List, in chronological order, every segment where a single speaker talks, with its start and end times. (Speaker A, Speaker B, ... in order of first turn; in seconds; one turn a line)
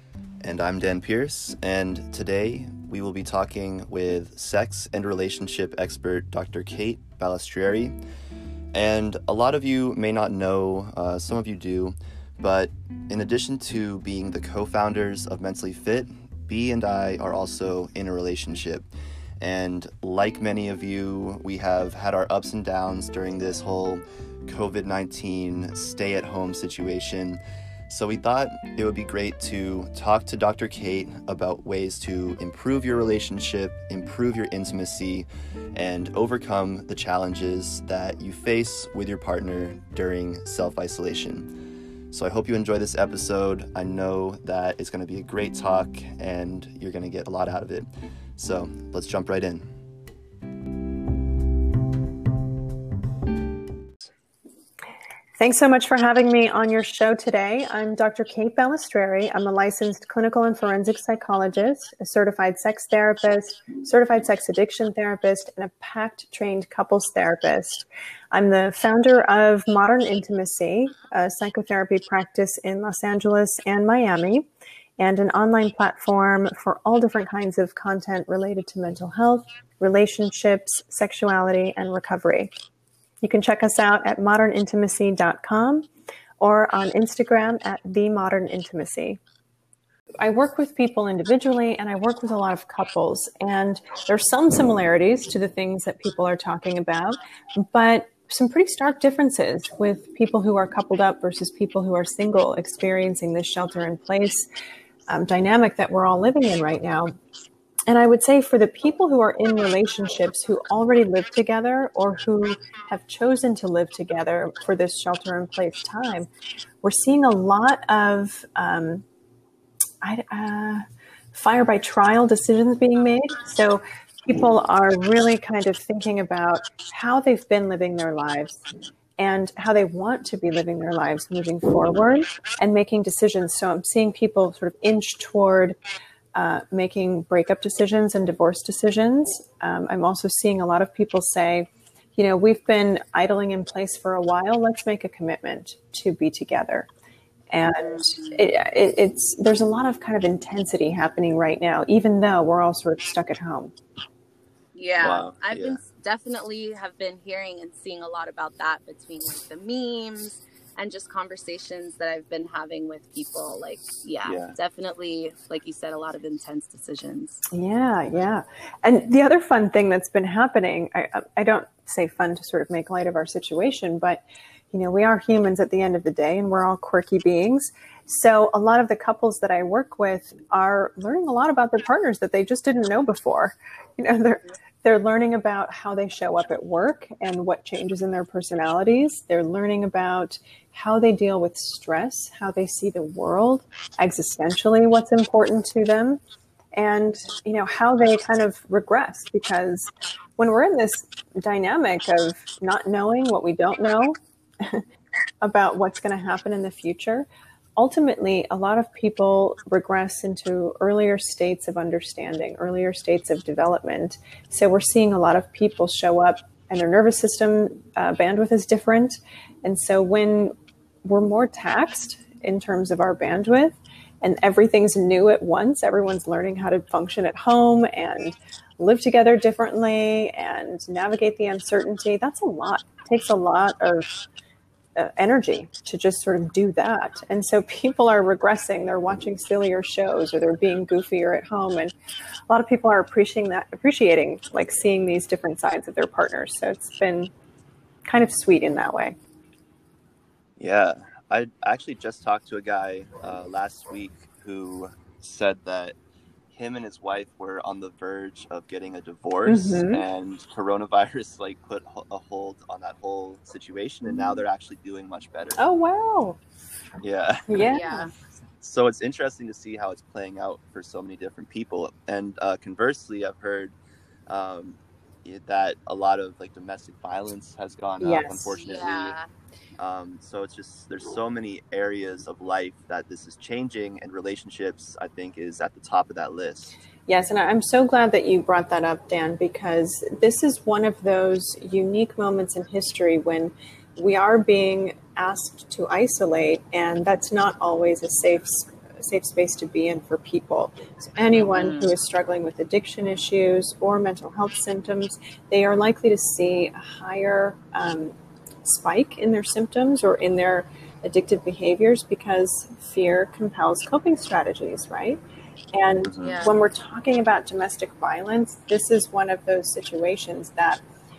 Speaker A: 0.4-8.0
Speaker A: 8.7-18.9
Speaker A: 19.4-41.5
Speaker A: 42.1-49.6
Speaker B: 55.4-74.5
Speaker B: 75.0-82.5
Speaker B: 83.2-85.9
Speaker B: 86.4-89.2
Speaker B: 90.2-104.5
Speaker B: 105.1-107.1
Speaker B: 107.9-116.3
Speaker B: 116.8-119.0
Speaker B: 120.0-128.6
Speaker B: 129.2-135.8
Speaker B: 136.3-146.9
Speaker B: 147.5-153.7
Speaker C: 147.8-148.5
Speaker C: 154.8-167.4
Speaker A: 155.0-155.8
Speaker A: 164.2-164.6
Speaker B: 167.5-196.2
Speaker B: 196.7-204.9
Speaker B: 205.4-234.2
Speaker B: 235.0-241.9
Speaker B: 242.5-247.3
Speaker B: 248.1-249.2
Speaker A: 250.6-256.0
Speaker A: 256.5-265.6
Speaker B: 259.5-260.0
Speaker B: 265.6-266.4
Speaker A: 267.0-267.7
Speaker B: 267.5-268.1
Speaker C: 267.6-268.1
Speaker A: 268.6-273.8
Speaker A: 274.3-279.2
Speaker B: 278.0-278.6
Speaker C: 278.5-279.3
Speaker A: 279.8-286.8
Speaker B: 287.1-315.2
Speaker C: 301.4-301.9
Speaker B: 315.7-320.8
Speaker A: 316.0-316.4
Speaker C: 316.2-316.6